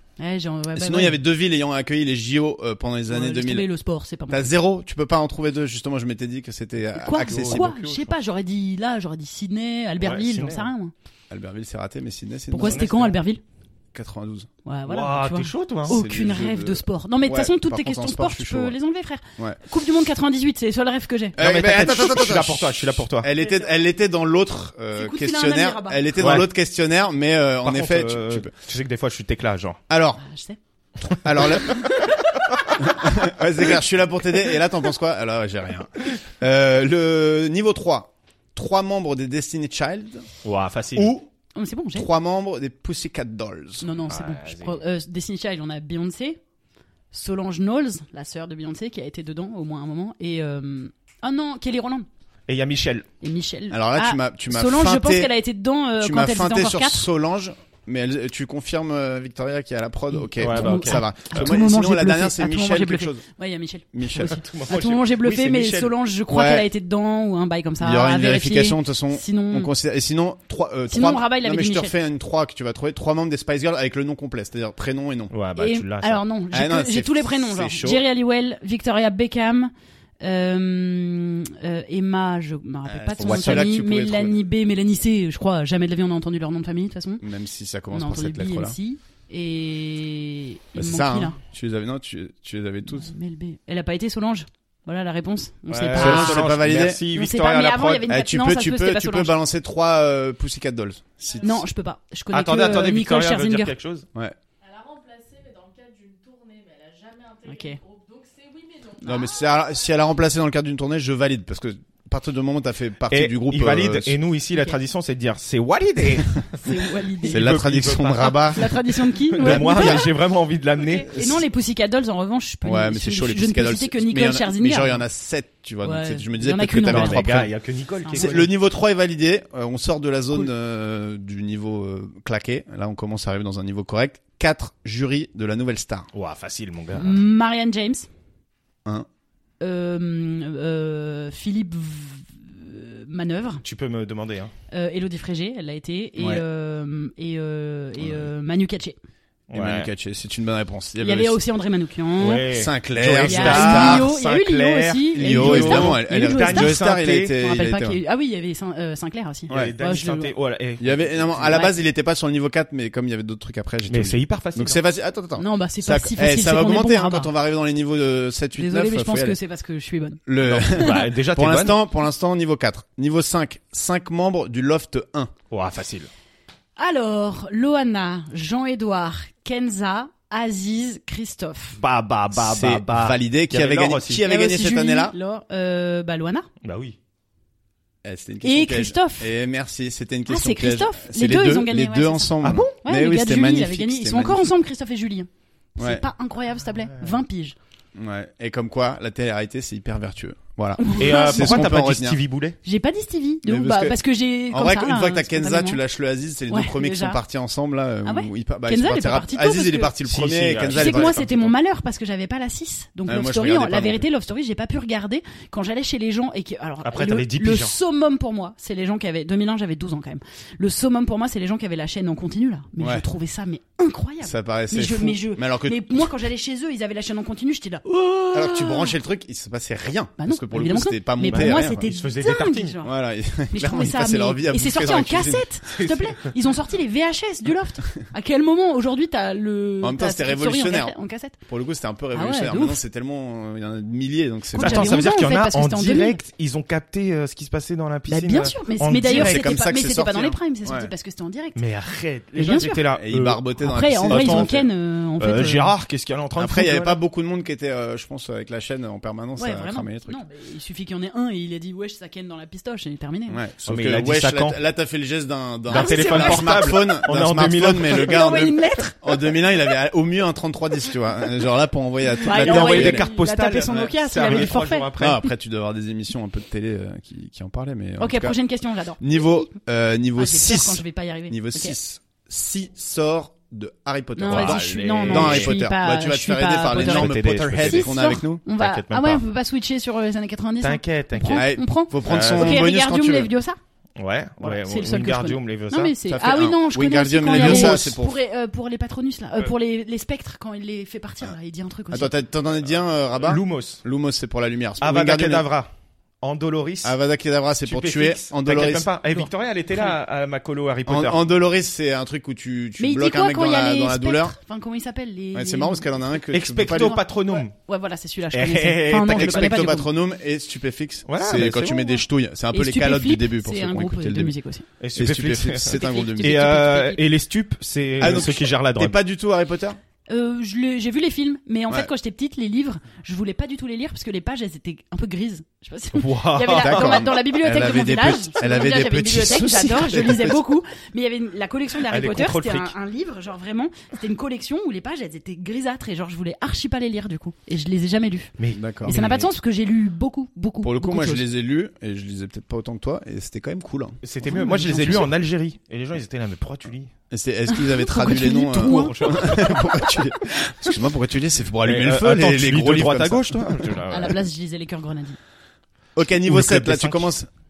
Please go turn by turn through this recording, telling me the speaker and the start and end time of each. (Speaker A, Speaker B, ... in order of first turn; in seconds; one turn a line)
Speaker A: 0.2-1.2
Speaker B: 0.7-3.7
Speaker A: 3.1-4.5
Speaker B: 4.3-7.8
Speaker A: 7.0-10.9
Speaker C: 7.2-8.2
Speaker C: 10.0-10.7
Speaker B: 11.3-12.9
Speaker A: 12.5-13.4
Speaker C: 12.6-13.2
Speaker B: 13.9-14.5
Speaker A: 14.7-21.4
Speaker C: 14.9-16.0
Speaker B: 15.9-18.8
Speaker B: 21.4-28.5
Speaker C: 21.4-23.3
Speaker A: 23.4-23.7
Speaker A: 24.9-26.2
Speaker C: 26.2-26.5
Speaker C: 27.6-29.8
Speaker B: 29.9-30.2
Speaker A: 30.2-30.6
Speaker C: 31.1-32.7
Speaker B: 31.2-31.9
Speaker B: 32.8-40.3
Speaker C: 40.4-41.1
Speaker B: 41.0-41.3
Speaker A: 41.5-42.1
Speaker B: 41.9-44.0
Speaker A: 43.8-46.4
Speaker C: 44.1-44.8
Speaker A: 47.1-52.1
Speaker C: 52.5-53.1
Speaker A: 53.2-57.1
Speaker B: 53.7-55.3
Speaker B: 56.0-63.3
Speaker A: 60.1-69.7
Speaker C: 60.4-61.5
Speaker B: 63.9-64.4
Speaker C: 64.2-65.9
Speaker B: 66.3-66.7
Speaker B: 67.8-75.4
Speaker A: 70.9-71.9
Speaker C: 75.3-76.2
Speaker A: 75.6-87.2
Speaker B: 76.5-78.0
Speaker B: 82.9-84.4
Speaker C: 83.2-83.8
Speaker B: 87.2-88.8
Speaker A: 87.9-91.4
Speaker B: 90.8-93.1
Speaker A: 93.0-96.5
Speaker B: 95.7-97.1
Speaker C: 95.7-98.1
Speaker A: 97.1-99.4
Speaker B: 98.0-101.7
Speaker D: 101.3-101.6
Speaker A: 101.4-103.8
Speaker C: 102.3-104.1
Speaker D: 104.6-110.0
Speaker A: 107.5-107.8
Speaker B: 109.0-114.2
Speaker C: 113.1-116.5
Speaker A: 116.5-117.4
Speaker C: 117.2-118.7
Speaker B: 117.2-118.7
Speaker A: 118.5-120.1
Speaker C: 119.3-121.2
Speaker B: 119.4-120.1
Speaker A: 120.8-125.0
Speaker B: 121.1-121.4
Speaker B: 122.6-127.5
Speaker A: 125.8-127.3
Speaker C: 126.8-128.5
Speaker A: 128.1-128.5
Speaker B: 128.1-136.1
Speaker C: 136.1-137.2
Speaker A: 136.9-138.1
Speaker A: 139.6-143.6
Speaker C: 143.6-144.5
Speaker A: 144.7-149.0
Speaker B: 146.2-146.4
Speaker B: 148.0-148.3
Speaker C: 149.5-149.9
Speaker B: 149.5-151.4
Speaker A: 151.0-152.5
Speaker C: 152.2-157.3
Speaker B: 152.5-154.1
Speaker A: 153.2-160.3
Speaker B: 155.1-158.0
Speaker C: 159.5-161.6
Speaker B: 160.8-169.4
Speaker A: 161.5-161.7
Speaker C: 163.9-164.8
Speaker A: 165.4-167.3
Speaker A: 168.6-170.2
Speaker B: 170.3-175.3
Speaker C: 170.4-171.8
Speaker C: 175.5-176.1
Speaker A: 176.8-181.8
Speaker C: 181.8-184.2
Speaker B: 182.3-185.2
Speaker A: 184.2-186.5
Speaker C: 186.6-187.0
Speaker B: 188.0-194.5
Speaker A: 188.4-189.3
Speaker A: 190.3-197.6
Speaker C: 192.4-192.7
Speaker B: 195.8-196.1
Speaker B: 197.9-202.2
Speaker A: 200.8-201.7
Speaker C: 201.0-202.6
Speaker A: 202.6-205.8
Speaker B: 203.4-204.0
Speaker B: 204.5-211.2
Speaker A: 206.5-207.2
Speaker A: 208.1-209.9
Speaker C: 210.1-211.5
Speaker A: 210.7-229.0
Speaker B: 213.1-214.1
Speaker C: 216.8-217.8
Speaker B: 222.8-223.1
Speaker B: 224.2-226.1
Speaker B: 228.3-231.9
Speaker A: 230.2-232.9
Speaker C: 231.3-232.8
Speaker B: 232.8-235.5
Speaker A: 233.5-241.4
Speaker C: 235.7-236.2
Speaker B: 239.8-240.9
Speaker B: 241.5-245.2
Speaker A: 242.1-242.8
Speaker A: 244.5-246.2
Speaker C: 244.5-249.5
Speaker A: 248.1-251.6
Speaker B: 248.9-250.9
Speaker C: 251.6-254.6
Speaker A: 252.4-252.8
Speaker B: 252.9-254.7
Speaker A: 253.6-255.7
Speaker C: 255.2-257.0
Speaker B: 256.4-260.2
Speaker A: 259.4-263.4
Speaker B: 263.3-273.1
Speaker C: 263.7-264.6
Speaker C: 265.7-268.3
Speaker A: 265.7-267.0
Speaker A: 267.9-269.0
Speaker A: 272.2-274.9
Speaker C: 272.3-275.3
Speaker B: 273.7-274.4
Speaker B: 275.0-278.4
Speaker A: 278.0-279.5
Speaker B: 279.0-288.4
Speaker A: 280.2-281.8
Speaker A: 284.2-293.6
Speaker C: 284.3-285.6
Speaker C: 286.7-289.2
Speaker C: 290.6-291.5
Speaker B: 291.3-293.3
Speaker C: 292.0-292.6
Speaker C: 294.0-295.9
Speaker A: 294.4-302.1
Speaker B: 296.1-298.2
Speaker C: 297.3-298.0
Speaker B: 301.9-305.5
Speaker C: 303.2-303.8
Speaker C: 304.8-305.7
Speaker C: 306.2-307.0
Speaker B: 306.8-308.9
Speaker C: 307.6-311.2
Speaker A: 309.1-310.0
Speaker B: 310.9-314.4
Speaker A: 312.8-316.1
Speaker B: 315.3-317.0
Speaker C: 316.3-317.6
Speaker A: 316.8-319.9
Speaker C: 318.3-319.7
Speaker B: 319.0-324.4
Speaker C: 321.1-322.0
Speaker A: 322.5-324.7
Speaker C: 324.8-329.0
Speaker B: 325.0-326.4
Speaker A: 325.7-327.0
Speaker B: 328.0-329.8
Speaker A: 330.1-351.2
Speaker C: 335.9-337.1
Speaker B: 336.5-340.4
Speaker C: 341.9-342.7
Speaker C: 348.4-349.3
Speaker B: 348.5-349.0
Speaker B: 350.6-354.0
Speaker C: 354.0-356.9
Speaker A: 354.3-355.1
Speaker B: 354.6-355.0
Speaker B: 357.1-363.8
Speaker A: 357.5-359.6
Speaker C: 358.5-359.7
Speaker C: 361.6-364.2
Speaker A: 363.9-365.2
Speaker B: 366.0-367.3
Speaker C: 366.2-367.1